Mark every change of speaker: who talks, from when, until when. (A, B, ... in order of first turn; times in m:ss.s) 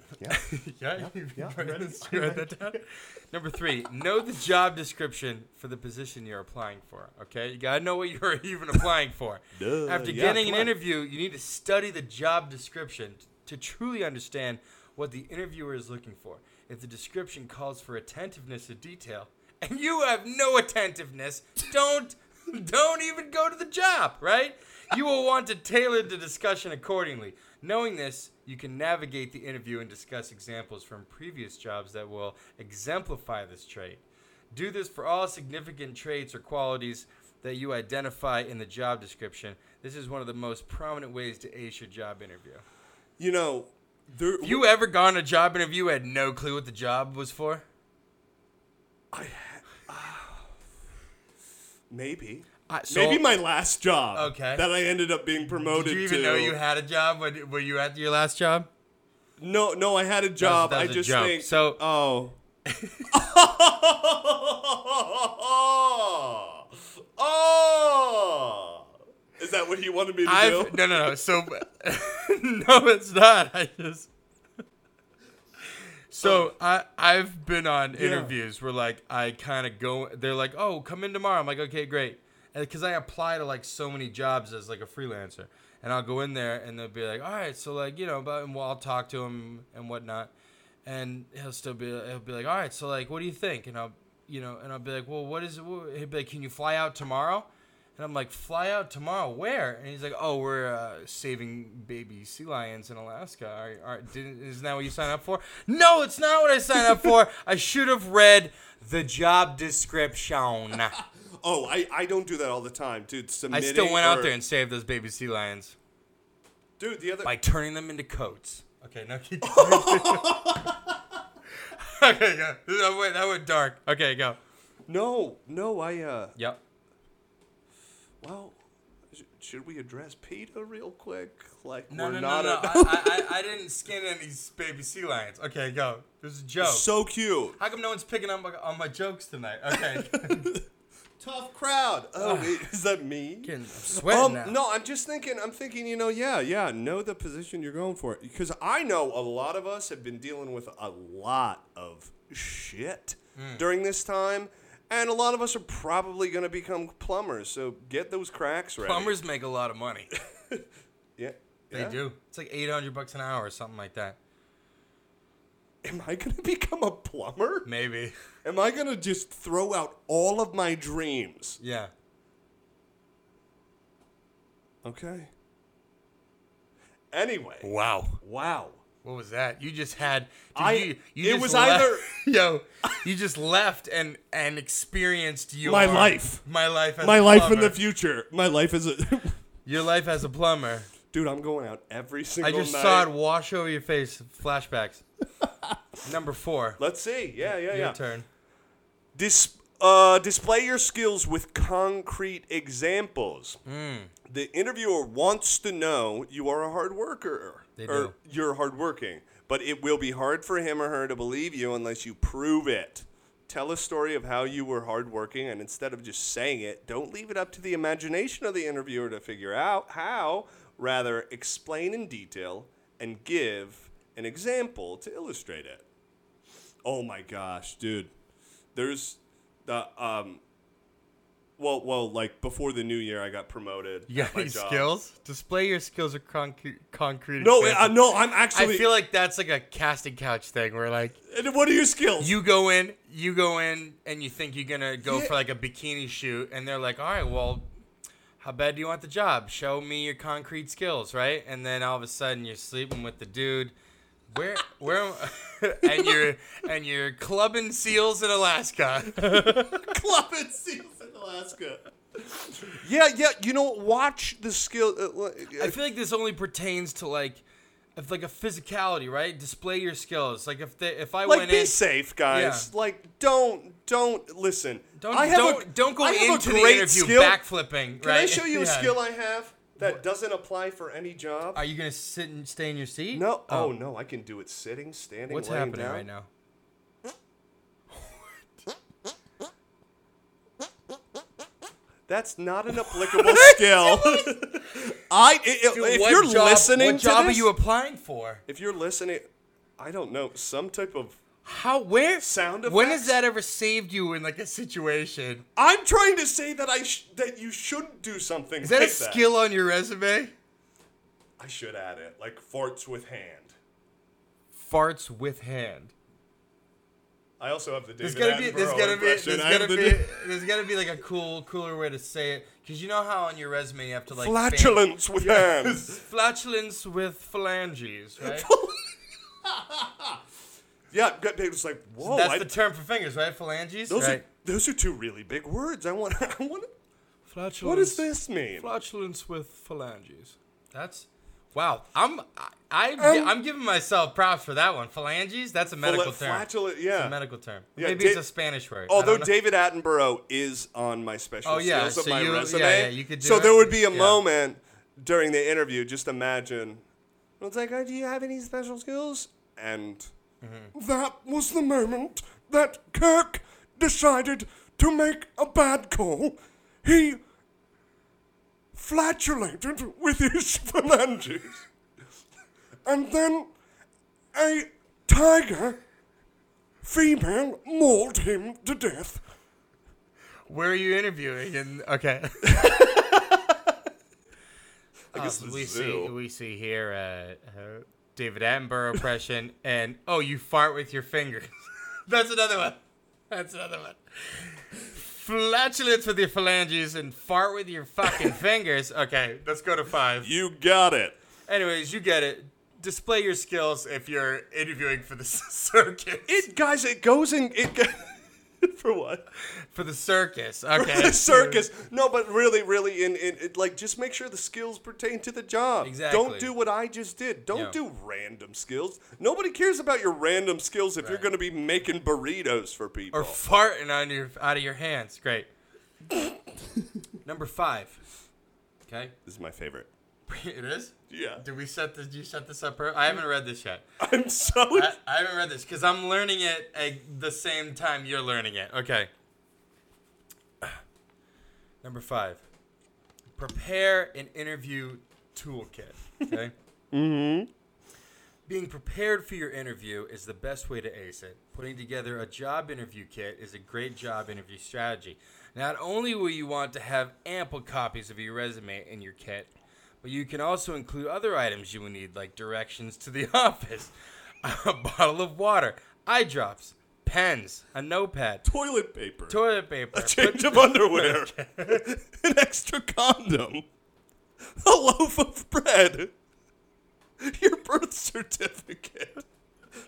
0:00.3-0:42.6 A
0:01.0-0:02.8 B
0:09.5-0:10.7 B
0:43.2-0:44.7 B
0:44.4-0:47.6 A
0:49.1-0:50.5 B
0:51.9-0:56.6 B
0:52.7-0:53.4 A
0:54.1-0:54.6 A
0:55.4-0:58.7 A
0:59.4-1:02.4 B
1:00.4-1:01.8 A
1:02.6-1:03.1 A
1:03.1-1:11.1 B
1:10.2-1:14.1 A
1:16.1-1:30.3 A
1:16.2-1:16.5 B
1:17.9-1:18.4 B
1:30.9-1:51.0 A
1:51.0-1:54.3 B
1:53.5-1:55.8 A
1:56.8-1:57.3 B
1:57.2-2:00.4 A
1:59.4-2:01.0 B
2:01.7-2:04.4 A
2:04.9-2:06.3 B
2:08.2-2:08.6 B
2:09.1-2:13.3 B
2:11.9-2:16.9 A
2:16.6-2:17.6 B
2:17.6-2:20.5 A
2:19.7-2:20.6 B
2:21.2-2:39.1 B
2:22.2-2:22.6 A
2:23.4-2:24.6 A
2:33.4-2:33.6 A
2:38.8-2:40.1 A
2:41.2-2:42.0 B
2:41.7-2:44.2 A
2:45.8-2:47.7 B
2:47.6-2:48.1 A
2:48.4-2:51.6 B
2:51.6-2:51.9 A
2:54.8-2:55.3 B
2:57.1-2:57.7 B
2:57.6-2:58.2 A
2:58.2-2:58.8 B
2:59.0-3:07.8 A
3:00.5-3:02.1 B
3:05.6-3:06.4 B
3:07.0-3:09.4 B
3:09.6-3:10.9 A
3:11.1-3:13.1 B
3:12.4-3:15.0 A
3:15.4-3:15.8 B
3:16.0-3:16.8 A
3:16.8-3:18.0 B
3:17.4-3:18.2 A
3:19.1-3:23.6 B
3:23.6-3:24.1 A
3:24.2-3:45.8 B
3:27.8-3:28.1 A
3:46.8-3:48.1 B
3:48.8-3:50.4 B
3:51.6-3:54.9 B
3:54.1-4:01.2 A
3:57.4-3:58.9 B
4:01.3-4:02.4 B
4:02.2-4:07.6 A
4:05.0-4:05.3 B
4:08.4-4:13.7 A
4:14.3-4:19.9 A
4:15.8-4:16.2 B
4:19.2-4:25.8 B
4:25.6-4:27.4 A
4:28.0-4:31.8 A
4:31.2-4:37.4 B
4:32.3-4:32.7 A
4:35.0-4:39.0 A
4:38.0-4:41.6 B
4:41.5-4:43.7 A
4:43.1-4:46.1 B
4:45.3-4:46.3 A
4:52.1-4:57.5 B
4:52.7-4:54.3 A
4:55.7-4:58.4 A
4:58.5-5:01.2 B
5:01.4-5:05.4 A
5:02.2-5:03.2 B
5:05.6-5:09.2 B
5:08.6-5:10.3 A
5:11.4-5:13.5 B
5:14.6-5:15.9 A
5:17.4-5:20.1 B
5:18.0-5:28.5 A
5:24.1-5:26.0 B
5:28.2-5:28.9 B
5:29.4-5:30.2 B
5:30.9-5:32.5 B
5:32.0-5:34.2 A
5:33.9-5:36.7 B
5:37.2-5:38.0 A
5:37.6-5:38.7 B
5:38.6-5:49.3 A
5:43.0-5:43.4 B
5:45.8-5:47.2 B
5:47.8-5:48.2 B
5:48.9-5:56.8 B
5:51.4-5:54.2 A
5:57.4-6:00.1 B
6:00.4-6:00.7 A
6:00.7-6:07.2 B
6:08.7-6:11.7 B
6:12.8-6:13.5 B
6:14.3-6:15.8 B
6:16.8-6:19.2 B
6:20.5-6:22.9 A
6:22.5-6:23.7 B
6:25.1-6:26.1 B
6:25.1-6:31.6 A
6:32.1-6:40.3 A
6:40.2-6:41.2 B
6:41.5-6:46.5 A
6:46.3-6:49.2 B
6:49.5-6:51.6 A
6:50.8-7:03.4 B
6:55.8-6:56.5 A
7:01.0-7:01.3 A
7:03.1-7:05.5 A
7:07.2-7:08.0 A
7:08.9-7:09.1 A
7:09.2-7:09.9 B
7:10.3-7:13.8 A
7:11.1-7:11.4 B
7:14.0-7:14.9 B
7:14.7-7:19.1 A
7:21.8-7:22.4 A
7:23.4-7:26.5 A
7:26.9-7:27.5 B
7:28.5-7:39.5 A
7:40.0-7:43.9 A
7:44.4-7:48.4 A
7:48.4-7:49.4 B
7:49.3-7:51.8 A
7:49.9-7:53.6 B
7:54.6-7:56.1 B
7:57.2-7:59.2 B